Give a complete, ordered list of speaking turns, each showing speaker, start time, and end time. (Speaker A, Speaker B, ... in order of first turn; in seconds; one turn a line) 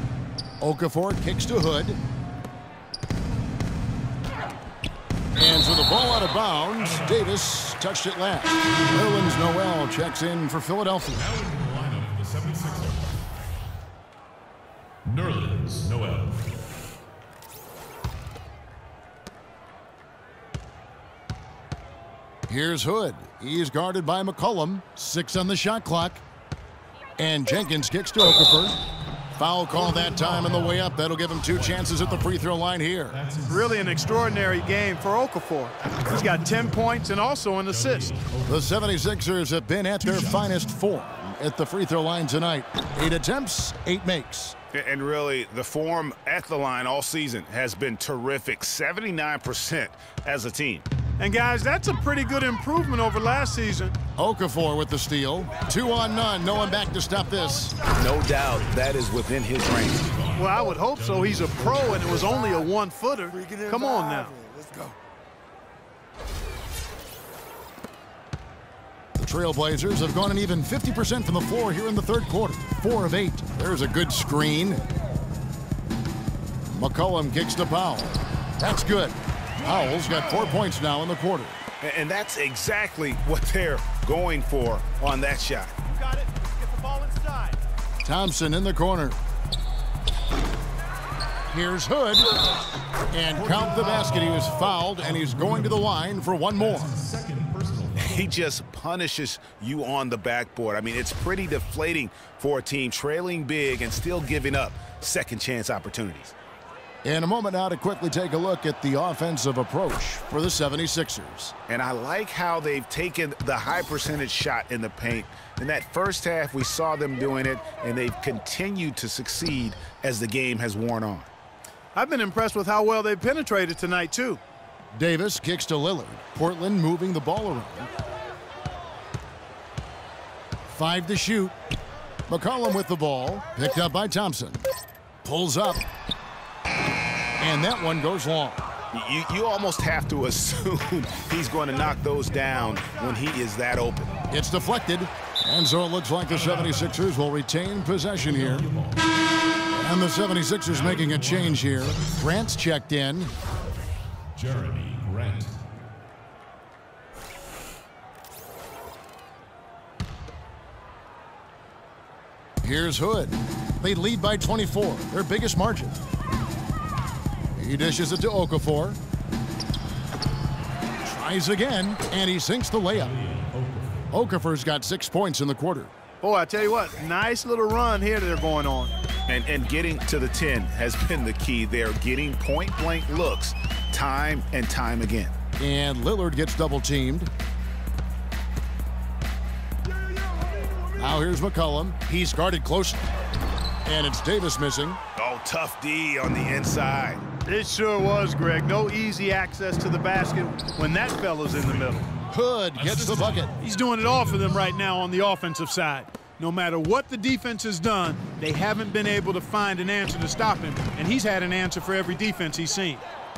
Speaker A: 0.6-2.0
Speaker A: 5.4-11.3
Speaker B: 11.3-13.1
Speaker B: 15.0-16.4
Speaker A: 22.5-26.2
Speaker A: 27.2-28.8
Speaker A: 29.4-33.2
Speaker B: 33.2-33.5
Speaker C: 33.5-38.2
Speaker B: 38.0-38.5
Speaker A: 38.5-44.5
Speaker D: 44.7-50.9
Speaker C: 51.2-53.9
Speaker A: 54.2-57.8
Speaker D: 57.9-60.1
Speaker C: 60.3-64.4
Speaker B: 61.2-61.8
Speaker A: 69.2-74.8
Speaker A: 76.7-81.6
Speaker D: 81.8-85.8
Speaker C: 85.9-87.6
Speaker A: 88.0-89.2
Speaker A: 91.5-92.3
Speaker A: 93.1-96.9
Speaker B: 96.8-98.2
Speaker D: 98.0-106.3
Speaker A: 107.0-111.5
Speaker D: 111.7-121.3
Speaker C: 121.9-124.4
Speaker A: 125.0-127.9
Speaker A: 130.7-131.5
Speaker A: 132.3-134.7
Speaker A: 135.2-135.8
Speaker A: 137.4-138.7
Speaker D: 138.9-144.1
Speaker A: 144.3-148.7
Speaker B: 148.3-148.9
Speaker A: 149.7-153.3
Speaker B: 150.9-151.4
Speaker B: 154.3-155.5
Speaker A: 162.6-165.9
Speaker A: 167.6-169.0
Speaker A: 171.0-173.2
Speaker B: 173.2-173.8
Speaker A: 174.1-175.9
Speaker C: 176.2-178.9
Speaker D: 179.3-185.3
Speaker A: 185.6-187.3
Speaker A: 190.9-193.1
Speaker A: 193.8-195.0
Speaker D: 195.2-197.2
Speaker C: 197.4-202.1
Speaker A: 202.3-203.5
Speaker B: 202.8-203.3
Speaker C: 203.6-213.0